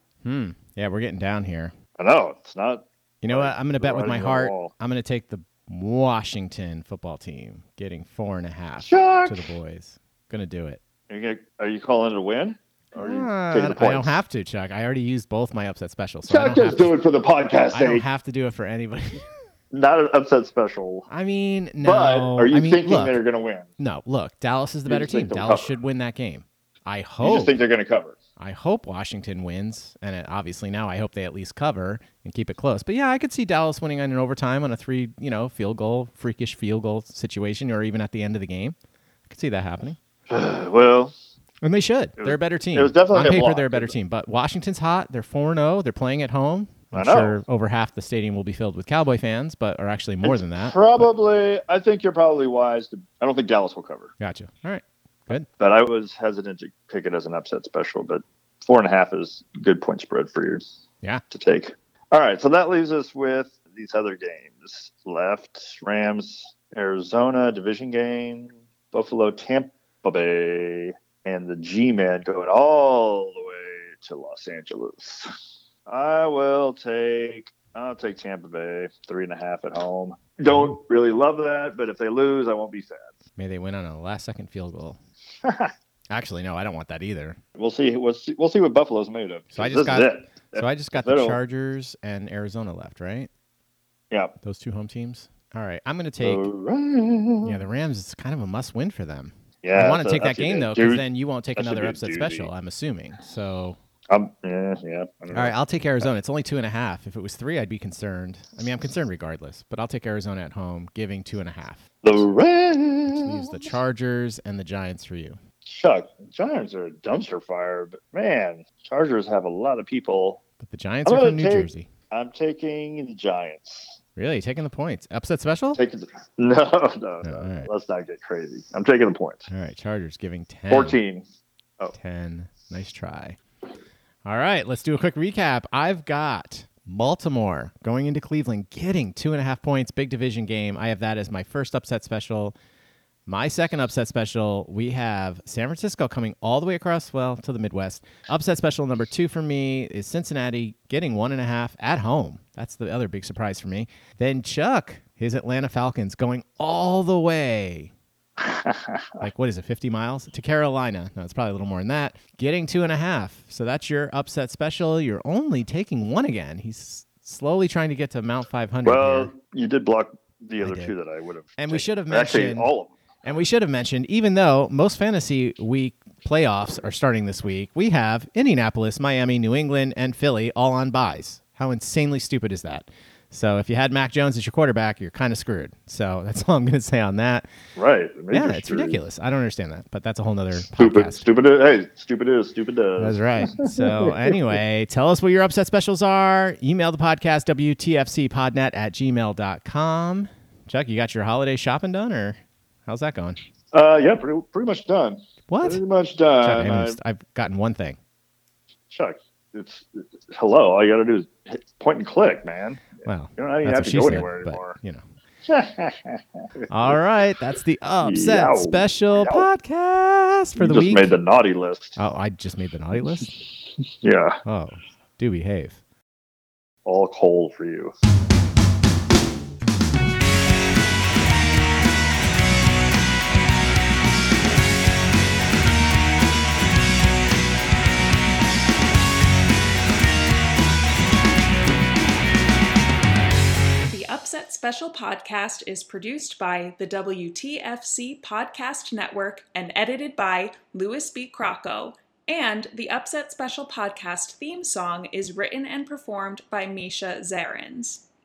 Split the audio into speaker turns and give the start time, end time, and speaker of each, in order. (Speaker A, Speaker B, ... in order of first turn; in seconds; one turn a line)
Speaker A: 0.2-1.7
Speaker B: 2.0-4.7
Speaker A: 3.2-10.8
Speaker B: 8.8-9.6
Speaker B: 11.1-14.2
Speaker A: 12.9-16.9
Speaker B: 16.3-18.0
Speaker A: 17.7-19.2
Speaker B: 19.7-21.1
Speaker A: 21.1-23.2
Speaker B: 21.8-23.7
Speaker A: 23.8-27.6
Speaker B: 24.9-25.7
Speaker B: 27.2-28.1
Speaker A: 28.4-38.8
Speaker A: 39.3-40.0
Speaker B: 40.3-41.1
Speaker A: 41.6-51.1
Speaker B: 42.2-44.0
Speaker B: 46.9-47.4
Speaker B: 50.2-54.1
Speaker A: 54.2-55.5
Speaker B: 55.4-60.6
Speaker B: 61.3-75.3
Speaker B: 75.9-83.1
Speaker A: 83.4-85.0
Speaker B: 85.4-85.7
Speaker A: 86.1-87.4
Speaker B: 87.5-91.4
Speaker A: 89.5-93.3
Speaker B: 94.1-94.3
Speaker A: 94.4-96.5
Speaker B: 96.2-97.6
Speaker A: 97.4-103.8
Speaker B: 99.6-101.0
Speaker B: 101.5-102.5
Speaker B: 104.1-106.1
Speaker A: 105.3-111.8
Speaker B: 112.0-113.7
Speaker A: 113.1-115.4
Speaker B: 115.6-120.4
Speaker A: 120.6-121.9
Speaker B: 121.0-124.0
Speaker A: 124.2-125.8
Speaker B: 125.7-129.5
Speaker A: 127.2-127.7
Speaker A: 129.5-131.0
Speaker B: 130.7-131.2
Speaker A: 131.9-133.4
Speaker A: 134.2-142.6
Speaker A: 143.3-157.9
Speaker B: 158.4-159.3
Speaker A: 159.2-169.3
Speaker B: 168.8-172.9
Speaker A: 170.6-170.9
Speaker A: 171.6-172.7
Speaker A: 173.2-187.5
Speaker B: 187.8-189.0
Speaker A: 188.3-191.2
Speaker B: 190.6-194.1
Speaker A: 193.0-203.4
Speaker B: 203.7-207.0
Speaker A: 205.5-205.8
Speaker A: 206.4-208.0
Speaker B: 208.9-214.8
Speaker A: 213.0-215.0
Speaker B: 215.5-216.2
Speaker A: 216.7-221.1
Speaker B: 218.0-219.5
Speaker B: 220.5-222.0
Speaker A: 222.0-223.3
Speaker B: 224.0-224.4
Speaker A: 224.4-225.8
Speaker B: 226.8-227.9
Speaker C: 243.9-257.9